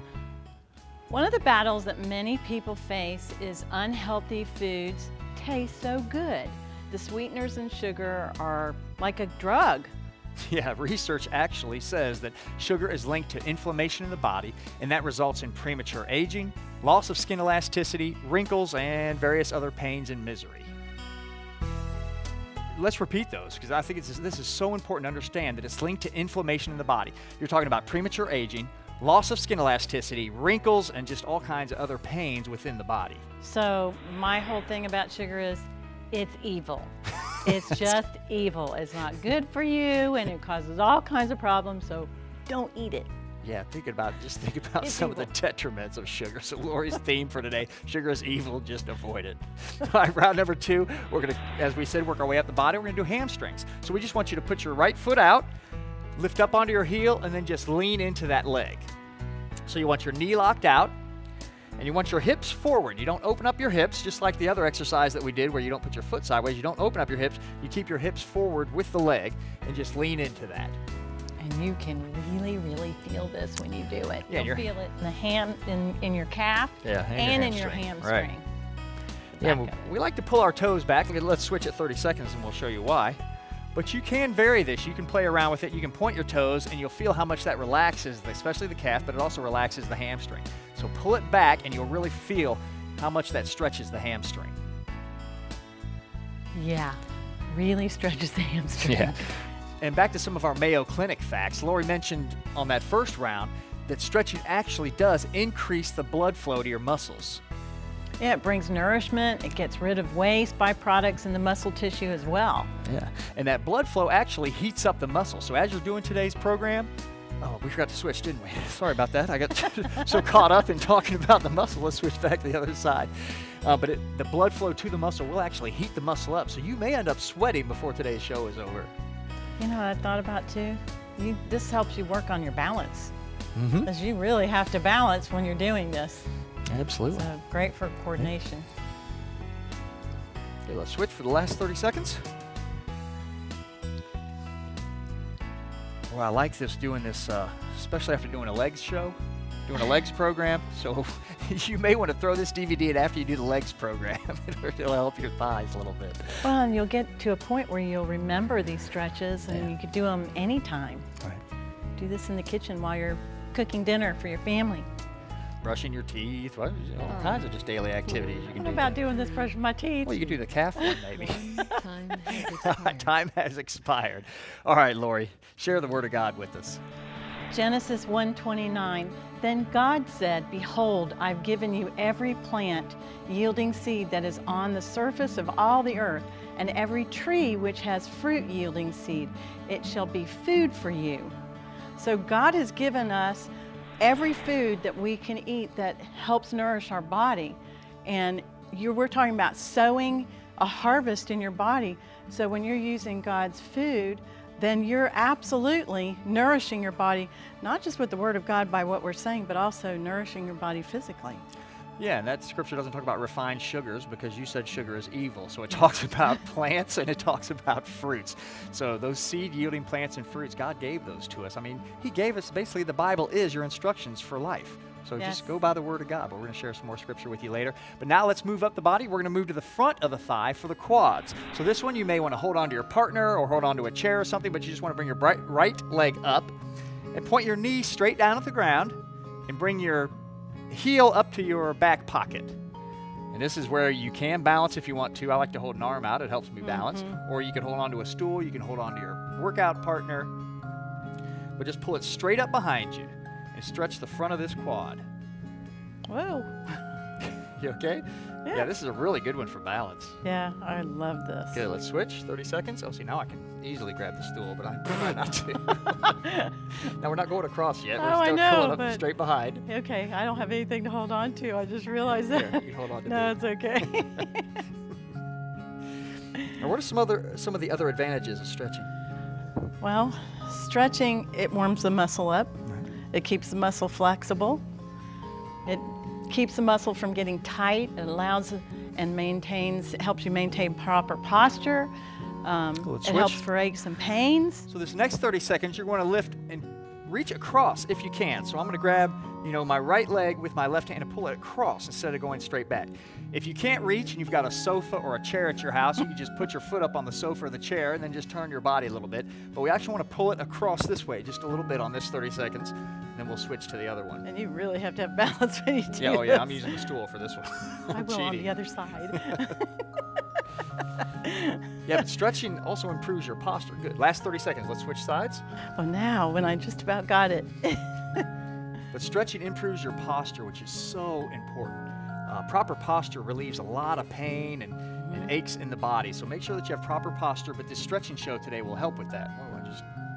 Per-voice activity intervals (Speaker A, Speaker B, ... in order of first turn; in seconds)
Speaker A: 1.1-9.9, 33.4-43.1, 44.8-45.3, 71.4-78.4, 79.3-79.9, 96.5-99.3, 108.2-112.7, 129.6-133.1, 133.8-136.3, 137.1-138.7, 156.4-161.1, 162.0-164.9, 168.5-171.8, 177.5-191.3, 192.0-193.5, 194.0-211.5, 225.2-225.4, 246.6-247.2, 256.1-256.8, 260.2-261.6, 266.1-266.5, 268.0-269.0, 269.6-274.6, 279.8-284.6, 285.6-291.9, 292.4-294.7, 314.2-316.8, 317.9-320.4, 321.2-321.7, 325.7-328.2, 335.0-335.3
Speaker B: 10.4-20.7, 22.7-33.2, 43.4-55.5, 56.1-58.9, 59.6-60.9, 61.8-70.8, 74.3-74.7, 76.8-78.3, 79.4-83.2, 83.7-94.6, 98.8-107.4, 112.8-128.9, 133.5-133.9, 136.7-137.3, 140.6-142.3, 146.1-156.5, 165.6-169.0, 170.0-171.7, 172.4-176.8, 212.0-236.6, 237.1-240.1, 240.7-242.6, 243.3-250.3, 251.6-255.0, 257.2-260.2, 261.5-266.2, 266.7-269.6, 272.3-274.2, 276.5-278.9, 292.8-293.4, 294.7-314.2, 316.0-318.5, 319.1-319.6, 321.9-325.4, 328.9-339.9
Speaker C: 167.1-167.5, 168.0-168.6, 169.1-169.5, 171.1-173.1